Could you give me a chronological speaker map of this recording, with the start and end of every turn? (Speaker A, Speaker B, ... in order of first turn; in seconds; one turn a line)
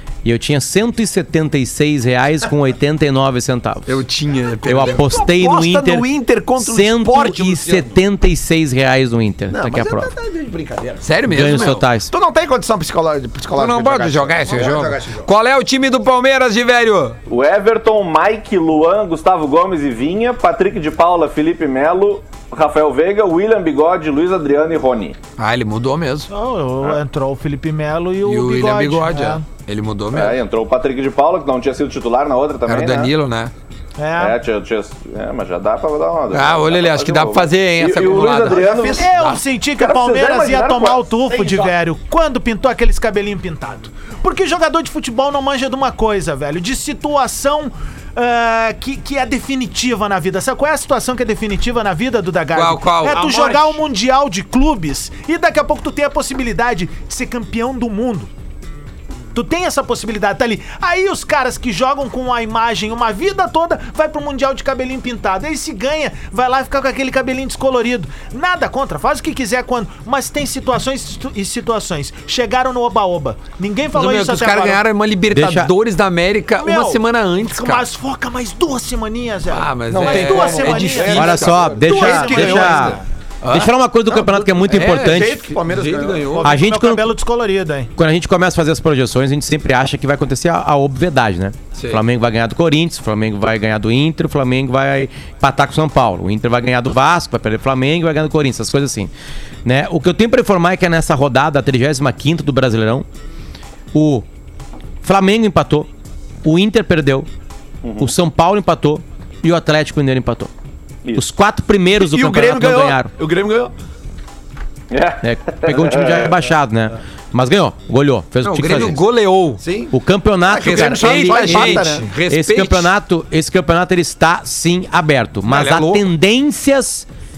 Speaker A: 0.2-4.0
Speaker B: 3.9-5.1
Speaker A: 4.7-10.1
Speaker C: 4.8-8.0
Speaker C: 9.5-15.3
Speaker B: 11.0-11.8
Speaker A: 11.3-12.1
Speaker B: 13.5-17.2
Speaker D: 17.3-25.2
Speaker B: 25.4-26.3
Speaker E: 26.3-29.4
Speaker B: 28.2-30.4
Speaker D: 30.1-33.1
Speaker B: 32.7-33.5
Speaker E: 34.0-34.4
Speaker D: 34.2-39.0
Speaker B: 36.3-39.4
Speaker C: 38.1-39.1
Speaker E: 38.7-58.3
Speaker D: 39.8-41.0
Speaker C: 41.3-41.7
Speaker B: 52.5-53.8
Speaker E: 59.3-74.8
Speaker B: 73.9-77.9
Speaker A: 75.3-75.7
Speaker E: 76.6-83.0
Speaker B: 79.5-81.8
Speaker C: 79.9-83.0
Speaker A: 81.1-83.0
Speaker B: 83.4-83.7
Speaker A: 83.5-85.5
Speaker C: 84.2-86.5
Speaker B: 84.7-86.5
Speaker E: 86.3-87.9
Speaker A: 86.4-87.1
Speaker A: 88.0-99.1
Speaker A: 99.7-103.1
Speaker A: 103.9-104.2
Speaker A: 105.0-105.9
Speaker A: 106.4-107.3
Speaker D: 107.8-108.1
Speaker A: 108.0-110.5
Speaker A: 111.2-113.1
Speaker C: 112.0-113.7
Speaker D: 114.9-116.3
Speaker A: 115.2-119.0
Speaker B: 118.4-119.6
Speaker C: 119.6-122.1
Speaker A: 119.9-127.1
Speaker B: 120.8-122.9
Speaker B: 125.5-126.1